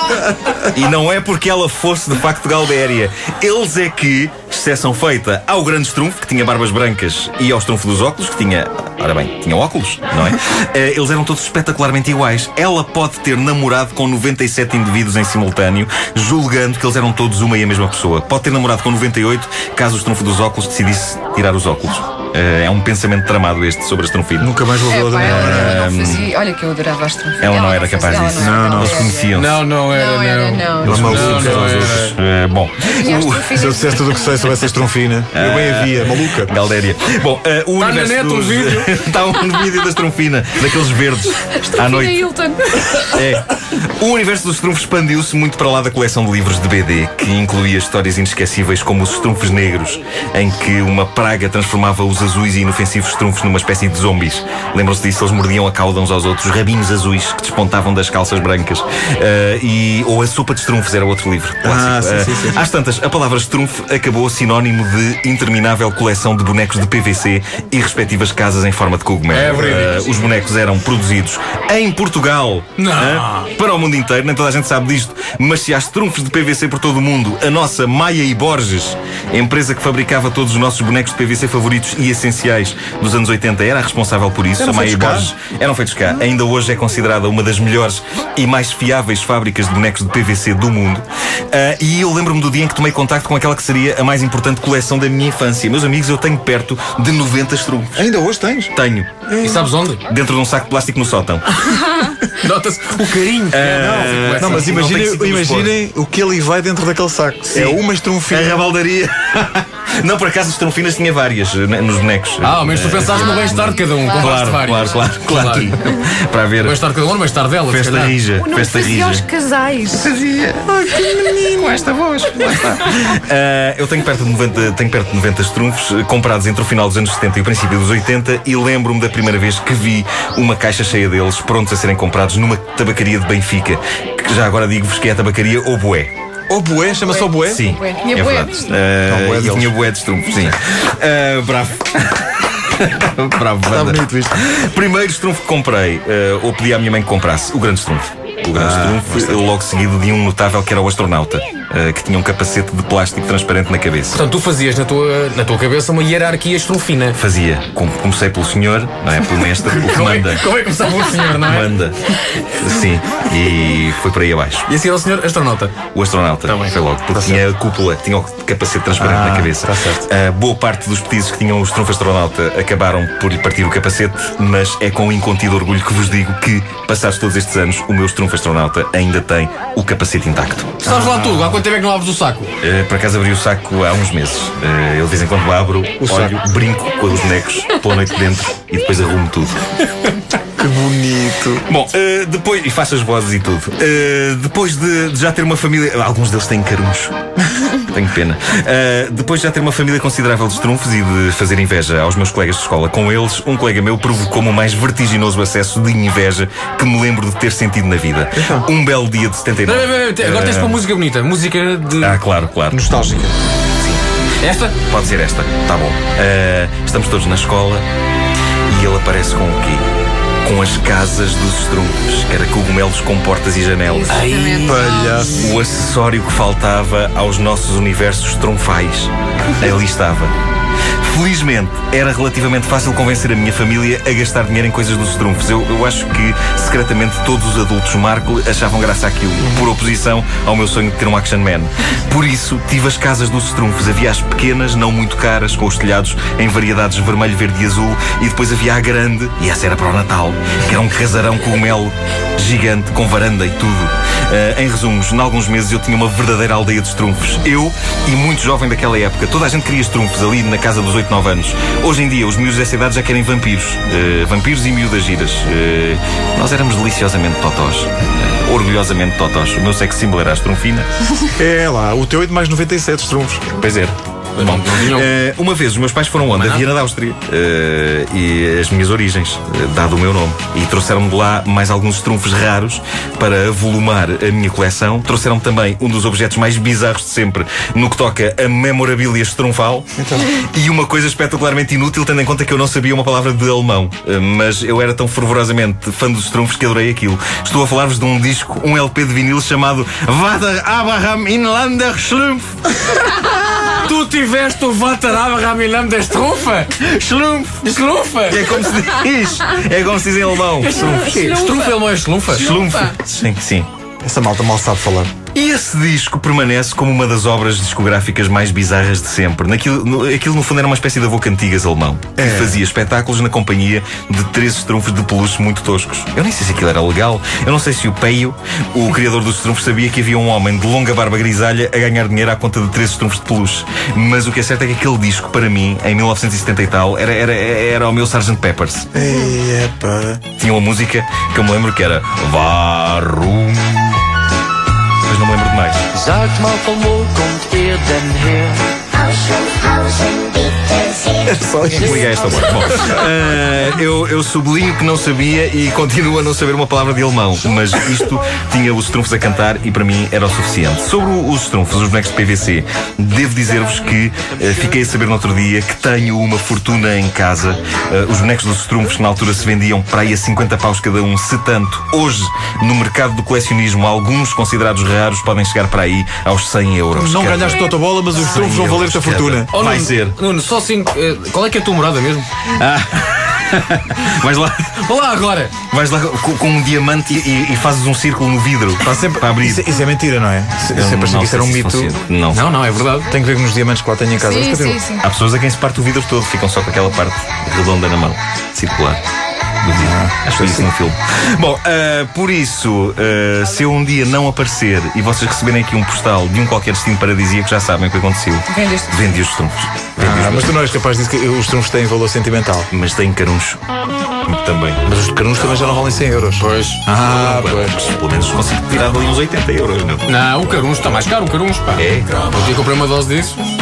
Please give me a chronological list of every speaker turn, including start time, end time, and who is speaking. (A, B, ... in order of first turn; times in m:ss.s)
0:00.6-0:24.5 A
0:24.4-0:25.9 B
0:24.9-0:29.3 C
0:25.1-0:26.3 A
0:27.4-0:29.6 A
0:28.4-0:29.1 B
0:29.3-0:32.2 D
0:29.8-0:31.0 C
0:30.8-0:32.1 B
0:30.9-0:33.7 A
0:32.8-0:34.5 C
0:33.5-0:36.5 B
0:35.3-0:42.3 A
0:37.8-0:39.0 D
0:41.6-0:43.1 C
0:43.1-1:38.0 A
1:01.6-1:02.6 B
1:09.3-1:10.1 D
1:12.8-1:13.5 D
1:24.6-1:25.3 B
1:37.9-1:38.7 B
1:38.7-1:39.3 A
1:39.3-1:39.6 B
1:39.4-1:40.0 D
1:40.1-1:41.4 A
1:41.6-1:44.7 D
1:43.5-1:45.8 A
1:43.8-1:48.5 B
1:47.5-1:56.8 A
1:52.4-1:55.8 D
1:53.1-1:54.4 C
1:56.6-1:58.2 D
1:57.7-1:59.2 A
1:58.4-2:00.0 C
1:59.9-2:16.1 A
2:00.7-2:01.8 B
2:16.5-2:17.6 B
2:17.0-2:18.6 C
2:17.4-2:34.2 A
2:19.0-2:19.8 B
2:23.7-2:24.4 B
2:28.5-2:29.4 B
2:34.1-2:37.2 D
2:37.1-2:40.4 A
2:39.4-2:41.8 D
2:41.4-2:42.0 A
2:42.5-2:44.6 A
2:44.7-2:45.8 D
2:45.9-3:01.0 A
2:46.4-2:46.8 D
2:47.1-2:47.4 B
2:49.0-2:50.1 B
3:00.8-3:02.5 D
3:02.6-3:09.7 A
3:06.0-3:06.4 B
3:10.6-3:11.6 B
3:11.7-3:30.8 A
3:28.3-3:28.7 D
3:29.6-3:32.2 D
3:32.0-3:32.9 A
3:32.7-3:33.3 D
3:34.4-3:34.8 D
3:34.8-3:37.8 A
3:38.7-3:39.9 A
3:40.4-3:44.2 A
3:43.8-3:45.3 C
3:44.1-3:44.9 D
3:44.6-3:45.5 B
3:45.4-3:50.3 A
3:51.0-4:30.9 A
4:31.3-4:33.6 B
4:33.6-5:02.7 A
4:34.4-4:35.1 D
4:36.3-4:36.7 D
4:50.0-4:50.3 B
5:03.5-5:06.7 D
5:06.8-5:07.7 A
5:07.6-5:08.5 D
5:08.2-5:11.1 A
5:10.6-5:12.5 D
5:11.2-5:11.8 C
5:12.3-5:13.7 A
5:12.4-5:13.0 C
5:14.0-5:15.1 B
5:15.3-5:38.9 A
5:22.2-5:22.6 B
5:38.9-5:40.2 B
5:40.4-5:44.0 A
5:45.0-5:45.8 A
5:45.9-5:48.7 E
5:49.3-5:50.2 C
5:51.2-5:53.0 B
5:51.7-6:20.2 A
6:16.9-6:19.5 B
6:19.5-6:22.3 D
6:22.5-6:24.8 A
6:24.8-6:25.5 D
6:25.7-6:29.7 A
6:28.8-6:31.9 B
6:30.7-6:32.5 A
6:32.3-6:33.1 D
6:33.1-6:34.8 B
6:34.2-6:35.0 C
6:35.0-6:39.0 A
6:39.6-6:50.6 A
6:39.7-6:40.7 B
6:48.5-6:49.0 C
6:50.0-6:52.7 B
6:52.7-6:53.6 A
6:54.2-6:54.8 A
6:54.8-6:57.8 B
6:56.4-6:56.8 D
6:56.9-7:00.0 A
7:00.0-7:03.4 D
7:01.8-7:02.4 A